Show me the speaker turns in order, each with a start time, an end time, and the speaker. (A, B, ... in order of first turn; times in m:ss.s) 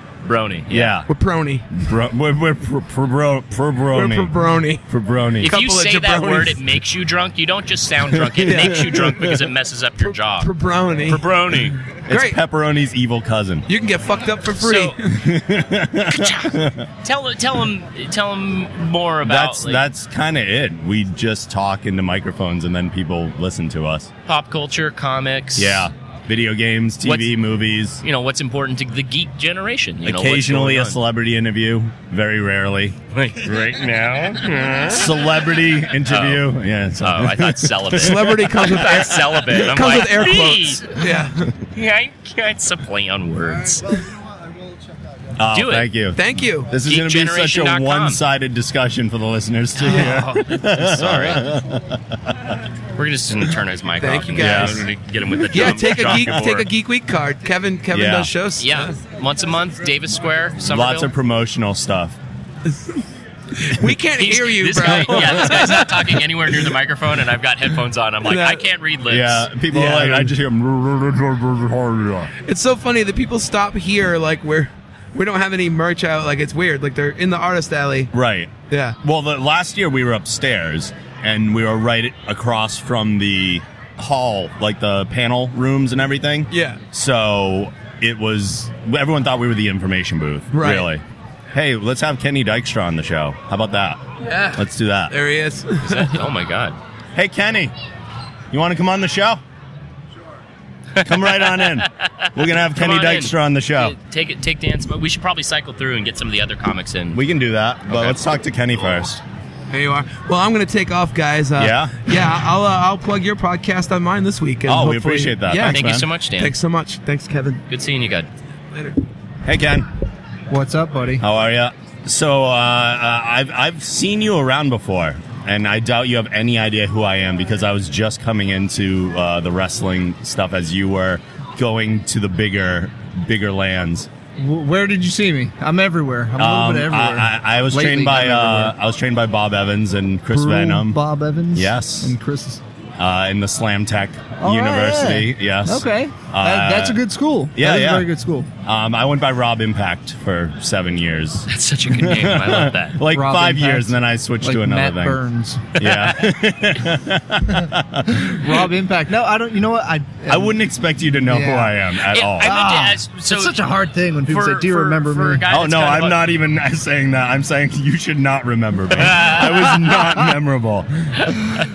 0:00.2-0:00.9 A
0:00.7-0:01.1 B
0:01.1-0:01.7 C
0:01.8-0:04.3 B
0:03.9-0:04.8 C
0:04.9-0:05.5 B
0:05.4-0:10.5 A
0:05.4-0:06.6 C
0:08.2-0:09.0 B
0:08.4-0:09.4 C
0:10.0-0:11.3 C
0:11.0-0:11.8 A
0:12.1-0:13.7 B
0:12.1-0:12.4 C
0:13.7-0:15.2 C
0:14.6-0:15.0 A
0:15.0-0:16.9 B
0:16.1-0:19.8 A
0:19.2-0:24.1 B
0:24.2-0:25.9 A
0:25.6-0:28.0 B
0:27.0-0:27.3 A
0:28.0-0:31.0 A
0:30.0-0:33.8 B
0:33.1-0:35.1 A
0:34.8-0:38.6 B
0:36.1-0:36.5 A
0:37.0-0:41.0 A
0:37.9-0:41.5 C
0:41.7-0:43.8 A
0:45.4-0:52.6 B
0:45.5-0:45.9 A
0:46.1-0:46.7 C
0:46.8-0:48.2 A
0:49.7-0:51.4 A
0:49.8-0:50.2 C
0:53.0-0:56.7 A
0:54.0-0:54.9 C
0:54.4-0:54.8 B
0:55.5-0:59.0 C
0:55.6-0:56.4 B
0:57.9-0:58.3 B
0:58.6-1:01.1 A
1:00.6-1:02.2 B
1:03.6-1:06.6 C
1:04.2-1:09.5 A
1:05.1-1:05.6 B
1:08.2-1:08.6 C
1:09.1-1:12.3 B
1:09.7-1:10.3 C
1:12.4-1:18.1 C
1:18.1-1:34.0 B
1:18.7-1:19.0 C
1:26.5-1:26.8 C
1:30.5-1:30.9 C
1:34.3-1:36.2 C
1:34.5-1:35.1 B
1:35.8-1:36.8 A
1:37.2-1:37.7 B
1:38.5-1:39.4 B
1:41.0-1:47.2 A
1:41.0-1:43.9 B
1:47.1-1:49.2 B
1:47.9-1:48.2 A
1:49.7-1:57.6 C
1:51.6-1:51.9 B
1:54.6-1:56.0 B
1:55.7-1:56.5 A
1:57.7-1:58.3 A
1:59.4-1:59.9 B
2:00.5-2:01.2 D
2:01.2-2:14.1 B
2:14.4-2:18.7 D
2:16.4-2:21.0 B
2:20.3-2:22.6 D
2:21.5-2:22.1 B
2:23.0-2:28.1 B
2:24.4-2:28.5 D
2:28.6-2:35.2 B
2:31.5-2:33.0 A
2:33.1-2:35.8 D
2:35.8-2:38.6 B
2:35.8-2:36.1 A
2:38.1-2:40.6 D
2:40.3-2:42.6 B
2:41.2-2:41.8 D
2:42.0-2:43.6 A
2:42.4-2:45.4 D
2:44.3-2:46.2 A
2:45.5-2:51.3 B
2:49.0-2:49.9 A